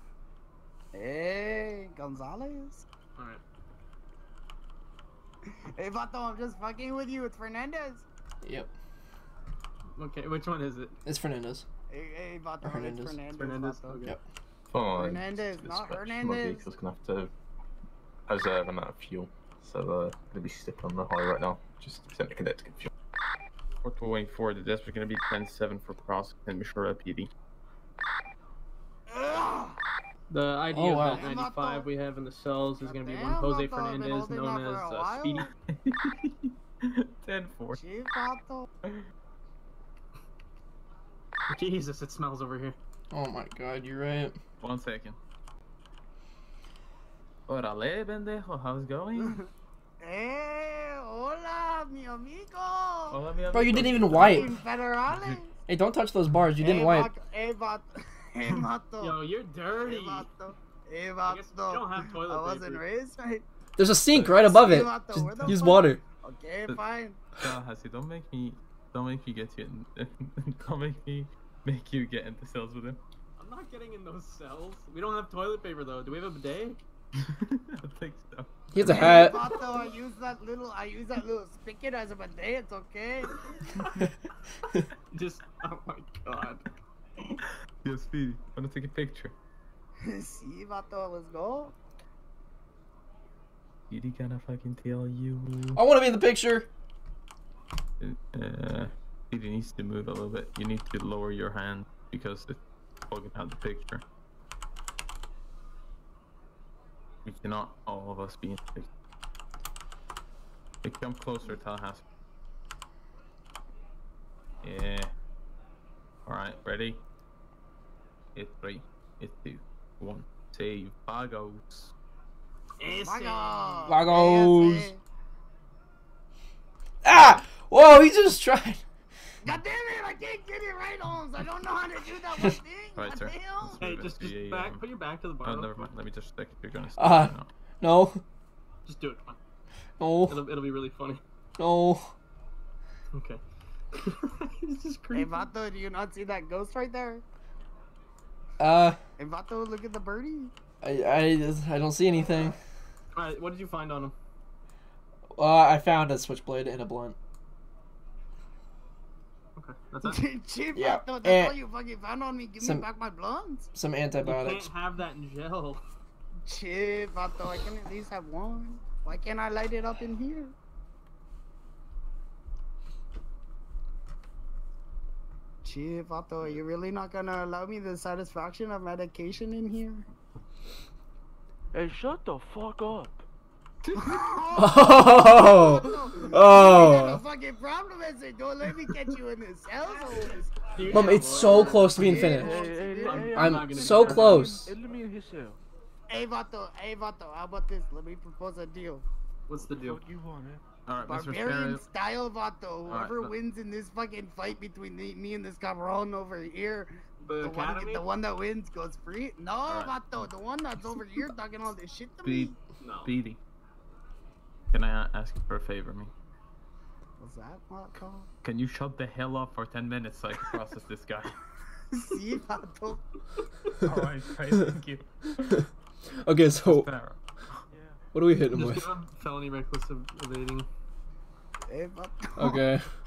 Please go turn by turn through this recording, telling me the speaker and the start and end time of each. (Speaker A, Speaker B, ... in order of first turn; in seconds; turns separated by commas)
Speaker A: 0.9-2.9, Speaker B: 3.1-3.4, Speaker A: 5.8-8.0, Speaker C: 8.4-8.7, Speaker B: 10.0-10.9, Speaker C: 11.1-11.6, Speaker A: 11.9-14.0, Speaker C: 12.6-13.2, Speaker B: 13.3-14.2, Speaker D: 14.7-15.1, Speaker A: 14.9-16.6, Speaker E: 15.0-16.2, Speaker D: 16.2-17.3, Speaker D: 18.3-22.9, Speaker F: 23.8-27.3, Speaker A: 29.1-29.8, Speaker B: 30.3-35.5, Speaker C: 30.7-31.3, Speaker A: 31.0-31.9, Speaker A: 32.8-35.5, Speaker F: 35.8-37.8, Speaker A: 37.7-38.7, Speaker B: 41.5-42.8, Speaker C: 43.1-44.4, Speaker F: 44.6-45.2, Speaker F: 47.5-49.4, Speaker A: 49.2-49.4, Speaker A: 50.0-53.2, Speaker F: 53.1-55.4, Speaker C: 53.5-54.5, Speaker A: 53.9-55.5, Speaker C: 55.7-57.1, Speaker A: 56.6-59.2, Speaker B: 59.0-60.3, Speaker A: 59.7-63.4, Speaker B: 61.2-62.8, Speaker C: 63.8-66.0, Speaker A: 64.3-67.2, Speaker F: 67.3-73.0, Speaker B: 73.4-76.8, Speaker F: 77.2-79.6, Speaker C: 78.7-79.4, Speaker A: 78.8-83.8, Speaker B: 85.1-86.6, Speaker F: 87.8-89.3, Speaker A: 90.0-91.7, Speaker F: 93.9-95.8, Speaker C: 95.7-96.7, Speaker F: 98.0-104.0, Speaker F: 107.2-108.9, Speaker F: 110.8-112.0, Speaker F: 114.6-115.1, Speaker F: 116.2-117.0, Speaker F: 118.3-121.9, Speaker B: 122.8-124.0, Speaker A: 123.0-125.0, Speaker C: 123.8-124.9, Speaker C: 127.0-128.8, Speaker F: 127.1-127.4, Speaker A: 129.4-133.9, Speaker F: 132.9-134.8, Speaker B: 133.8-135.9, Speaker F: 135.4-137.5, Speaker C: 137.0-138.2, Speaker B: 138.8-139.4, Speaker C: 140.0-140.4, Speaker B: 140.3-141.2, Speaker C: 141.6-142.1, Speaker B: 143.1-143.4, Speaker B: 143.9-145.5, Speaker A: 145.1-147.2, Speaker C: 148.6-149.0, Speaker A: 149.2-150.5, Speaker C: 150.8-152.6, Speaker B: 153.1-154.1, Speaker C: 155.3-157.2, Speaker B: 159.6-160.2, Speaker A: 160.0-163.7, Speaker C: 160.7-161.6, Speaker C: 162.6-162.8, Speaker C: 163.7-164.7, Speaker B: 164.2-165.8, Speaker A: 166.4-170.5, Speaker A: 175.6-180.1, Speaker E: 181.7-183.2, Speaker A: 184.0-190.6, Speaker C: 184.6-187.2, Speaker B: 190.7-191.9, Speaker C: 190.9-192.6, Speaker A: 191.4-193.3, Speaker E: 191.9-195.6, Speaker B: 192.9-194.4, Speaker C: 193.3-194.7, Speaker A: 196.1-199.0, Speaker B: 199.5-200.1, Speaker E: 199.8-200.6, Speaker F: 200.8-201.8, Speaker A: 201.0-212.5, Speaker F: 202.8-203.3, Speaker B: 207.2-208.0, Speaker F: 209.7-210.2, Speaker F: 212.2-212.5, Speaker B: 212.8-213.1, Speaker F: 213.0-213.4, Speaker F: 214.7-216.1, Speaker A: 217.2-218.3, Speaker F: 218.4-221.4, Speaker A: 221.9-223.0, Speaker F: 223.8-225.7, Speaker C: 226.2-226.9, Speaker F: 226.6-227.6, Speaker E: 227.7-228.0, Speaker C: 228.1-228.9, Speaker B: 228.5-230.7, Speaker A: 231.7-232.6, Speaker C: 232.4-232.9